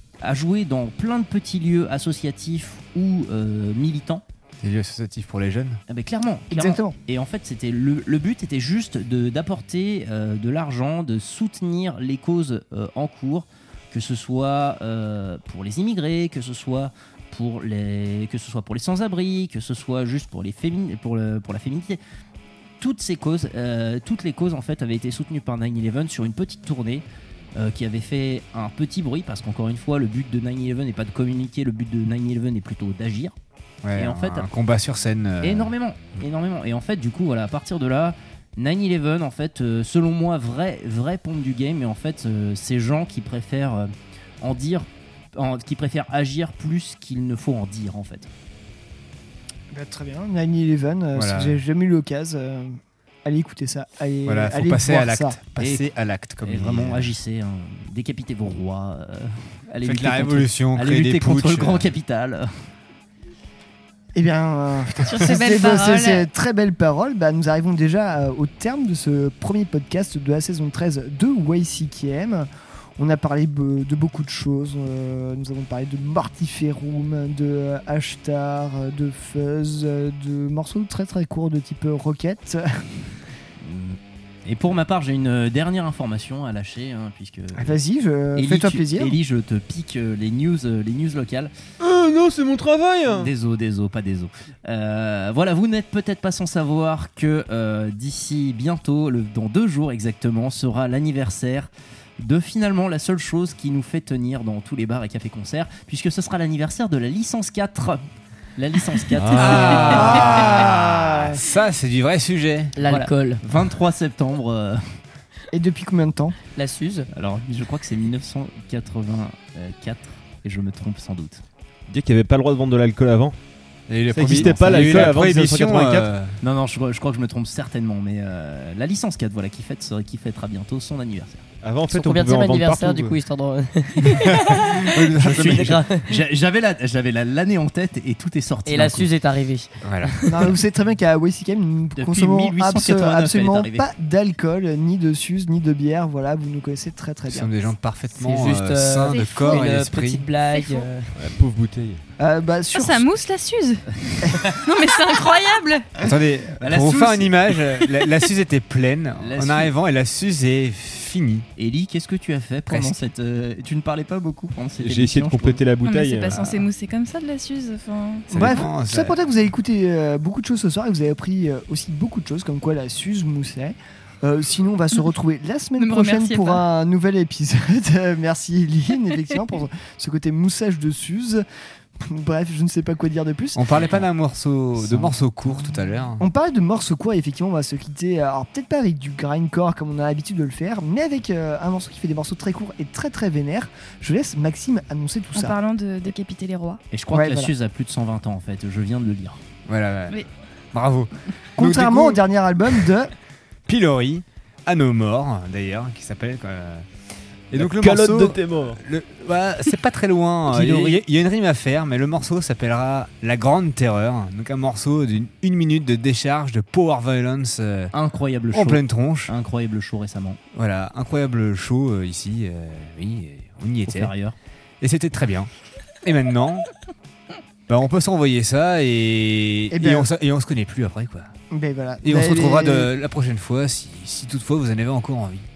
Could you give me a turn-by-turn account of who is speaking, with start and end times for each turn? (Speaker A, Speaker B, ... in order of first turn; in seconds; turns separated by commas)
Speaker A: 0.2-4.2, Speaker B: 4.6-5.8, Speaker A: 5.9-22.0, Speaker C: 6.5-6.9, Speaker A: 22.8-27.0, Speaker A: 27.6-33.3, Speaker B: 33.8-35.7, Speaker A: 33.9-34.5, Speaker A: 35.4-48.3, Speaker C: 49.7-55.4, Speaker B: 51.1-51.6, Speaker B: 54.2-57.1, Speaker A: 55.6-55.9, Speaker A: 56.4-62.7, Speaker B: 59.8-61.9, Speaker C: 64.1-83.0, Speaker D: 65.0-66.3, Speaker A: 83.6-87.8, Speaker C: 87.6-89.1, Speaker A: 88.3-91.5, Speaker E: 91.8-93.3, Speaker A: 93.1-108.0, Speaker A: 108.6-111.1, Speaker B: 109.3-112.7, Speaker F: 112.8-113.4, Speaker A: 112.8-115.0, Speaker C: 115.5-116.3, Speaker F: 116.5-117.1, Speaker A: 117.1-121.4, Speaker E: 121.9-123.3, Speaker B: 123.9-126.3, Speaker E: 124.1-126.1, Speaker A: 124.7-125.1, Speaker A: 126.4-131.4, Speaker E: 131.6-133.1, Speaker F: 131.9-134.7, Speaker B: 134.9-135.8, Speaker A: 135.2-139.1, Speaker F: 135.2-136.0, Speaker F: 138.7-140.3, Speaker B: 139.8-140.1, Speaker C: 140.3-147.5, Speaker A: 141.9-143.9, Speaker B: 147.3-150.3, Speaker F: 148.2-151.1, Speaker D: 149.0-149.6, Speaker D: 150.5-150.9, Speaker E: 151.2-152.0, Speaker C: 152.2-153.1, Speaker D: 152.7-153.8, Speaker D: 154.5-155.8, Speaker B: 156.0-161.4, Speaker A: 156.6-157.7, Speaker A: 159.2-159.7, Speaker A: 161.6-165.6, Speaker B: 162.7-162.9, Speaker E: 164.8-166.4, Speaker D: 165.8-168.3, Speaker B: 168.3-169.2, Speaker C: 168.3-181.4, Speaker D: 175.8-176.6, Speaker C: 182.0-183.6, Speaker B: 183.5-186.2, Speaker C: 186.2-195.6, Speaker D: 195.3-196.8, Speaker A: 196.9-199.4, Speaker C: 197.1-197.5, Speaker B: 199.7-200.2, Speaker B: 200.7-202.2, Speaker C: 201.6-203.1, Speaker B: 203.7-206.8, Speaker B: 207.5-217.9, Speaker E: 207.5-208.8, Speaker A: 210.5-211.0, Speaker A: 217.9-220.4, Speaker B: 218.5-219.3, Speaker B: 220.5-224.1, Speaker A: 223.9-224.3, Speaker B: 224.8-225.5, Speaker B: 226.0-226.7, Speaker B: 227.7-231.3, Speaker C: 229.7-230.1, Speaker C: 231.5-232.9, Speaker B: 232.0-235.5